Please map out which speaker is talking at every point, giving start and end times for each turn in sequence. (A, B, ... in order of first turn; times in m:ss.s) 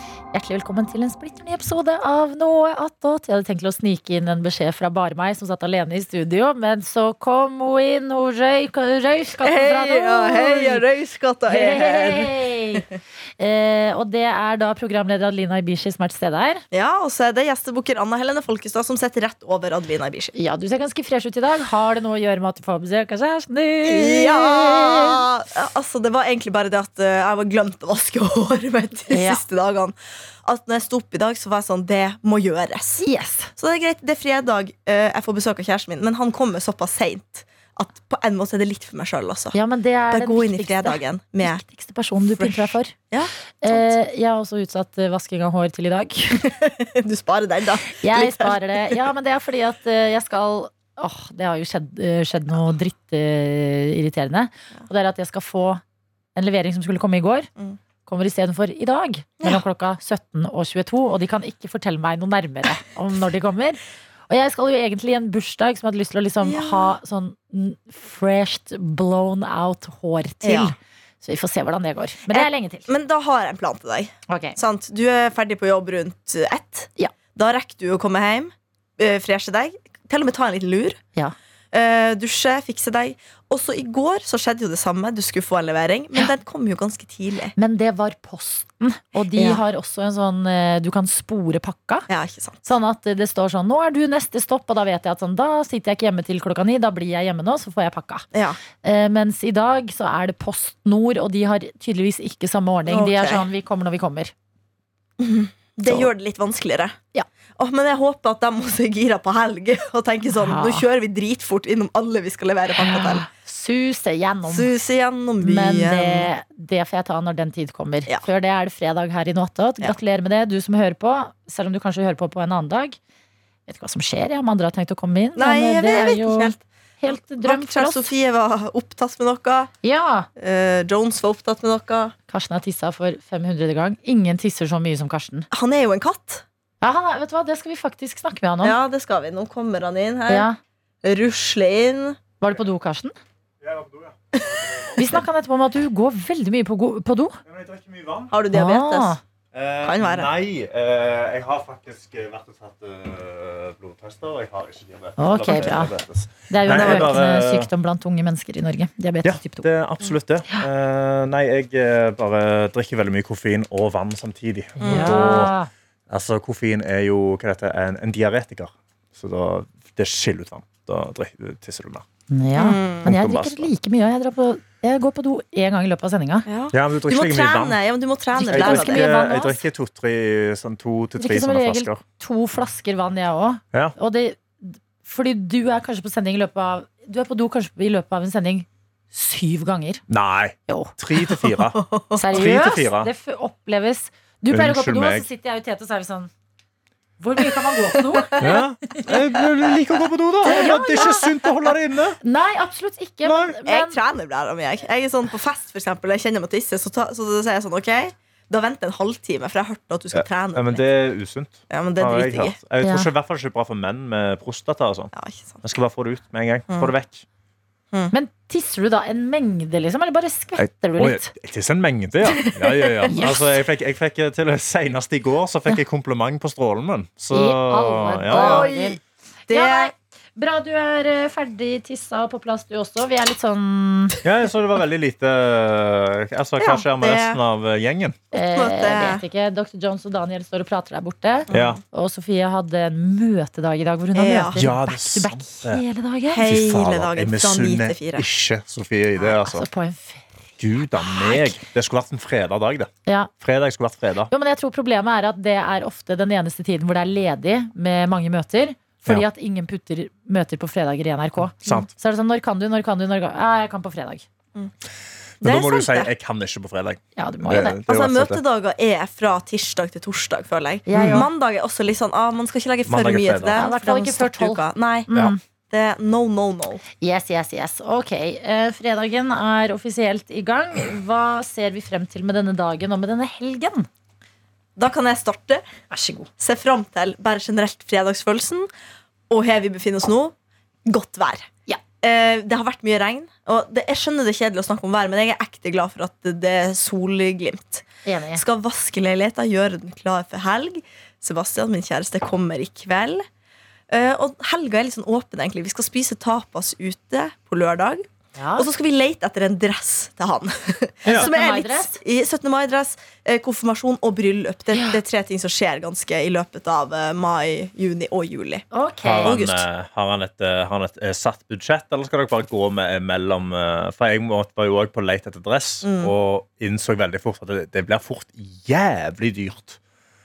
0:00.3-0:10.8 A
0:09.4-0:12.9 B
0:11.5-0:16.6 A
0:16.7-0:20.3 B
0:20.3-0:25.2 A
0:23.8-0:33.0 B
0:29.1-0:29.4 A
0:33.0-0:33.5 A
0:33.6-0:39.6 B
0:39.5-0:42.9 A
0:40.1-0:41.6 B
0:42.4-0:43.9 B
0:43.6-0:46.4 A
0:46.4-0:49.0 B
0:47.9-0:55.8 A
0:56.4-0:57.5 A
0:58.0-1:12.9 A
1:06.4-1:06.9 B
1:10.4-1:10.7 B
1:12.3-1:21.0 B
1:14.3-1:14.6 A
1:21.7-1:27.5 B
1:27.6-1:32.1 A
1:29.4-1:29.6 B
1:32.1-1:32.6 B
1:32.6-1:38.2 A
1:38.3-1:38.6 B
1:38.8-1:44.3 A
1:42.9-1:43.4 B
1:45.2-1:47.0 B
1:47.6-1:53.2 B
1:50.4-1:50.8 A
1:52.8-1:54.7 A
1:54.4-1:56.3 B
1:55.4-2:03.0 A
2:03.7-2:08.1 A
2:05.4-2:09.7 B
2:09.8-2:10.3 A
2:10.4-2:12.1 B
2:12.3-2:15.5 A
2:15.5-2:16.4 B
2:16.8-2:18.8 A
2:18.6-2:20.5 B
2:20.3-2:20.6 A
2:21.0-2:22.2 B
2:22.4-2:23.1 A
2:23.6-2:25.0 C
2:25.0-2:27.4 A
2:27.4-2:28.3 C
2:28.3-2:29.2 B
2:28.5-2:29.2 A
2:29.5-2:37.7 C
2:29.8-2:30.3 B
2:35.2-2:35.9 A
2:36.5-2:39.7 A
2:36.7-2:37.2 B
2:39.2-2:45.5 C
2:44.8-2:45.1 B
2:44.8-2:45.7 A
2:46.1-2:52.0 C
2:52.3-2:56.4 A
2:52.5-2:53.1 B
2:53.0-2:53.7 C
2:56.5-2:59.1 B
2:56.7-2:57.8 C
2:58.4-2:59.6 A
2:58.5-3:02.0 C
3:01.2-3:10.0 A
3:10.1-3:13.1 C
3:10.7-3:10.9 A
3:11.3-3:12.2 B
3:12.2-3:16.3 A
3:14.5-3:15.3 C
3:17.2-3:19.2 A
3:17.5-3:19.2 B
3:18.4-3:22.2 C
3:20.4-3:21.1 B
3:20.4-3:21.3 A
3:22.2-3:24.0 A
3:23.2-3:23.5 C
3:23.6-3:30.8 B
3:30.1-3:35.1 C
3:31.7-3:32.6 B
3:32.8-3:33.1 A
3:35.1-3:35.6 B
3:35.6-3:37.2 C
3:38.1-3:41.3 A
3:40.6-3:48.7 C
3:42.4-3:43.3 B
3:43.1-3:43.5 A
3:47.3-3:54.2 A
3:48.3-3:49.9 B
3:54.2-3:58.2 C
3:56.6-3:57.4 B
3:58.3-3:59.2 B
3:58.3-4:06.4 A
4:01.5-4:01.8 B
4:01.5-4:01.8 C
4:04.1-4:04.6 B
4:04.6-4:05.8 C
4:06.3-4:08.2 B
4:06.4-4:09.6 C
4:09.4-4:10.2 A
4:10.6-4:12.9 C
4:11.0-4:11.6 A
4:13.4-4:14.3 C
4:14.3-4:24.2 A
4:21.5-4:21.9 C
4:25.4-4:28.4 C
4:25.4-4:26.1 B
4:27.2-4:27.8 A
4:27.8-4:35.1 B
4:30.9-4:31.3 A
4:30.9-4:31.2 C
4:32.8-4:33.7 C
4:33.5-4:35.4 A
4:35.7-4:36.8 B
4:37.0-4:43.9 A
4:44.8-4:45.6 B
4:45.9-4:46.3 A
4:46.4-4:48.7 B
4:49.3-4:50.3 B
4:50.8-4:51.5 B
4:52.0-5:03.2 B
4:58.0-4:58.4 A
5:03.9-5:08.0 B
5:08.4-5:08.7 A
5:08.6-5:18.6 B
5:11.0-5:12.0 A
5:14.7-5:15.0 A
5:18.7-5:19.4 A
5:19.0-5:29.8 C
5:19.2-5:19.6 B
5:25.8-5:26.1 B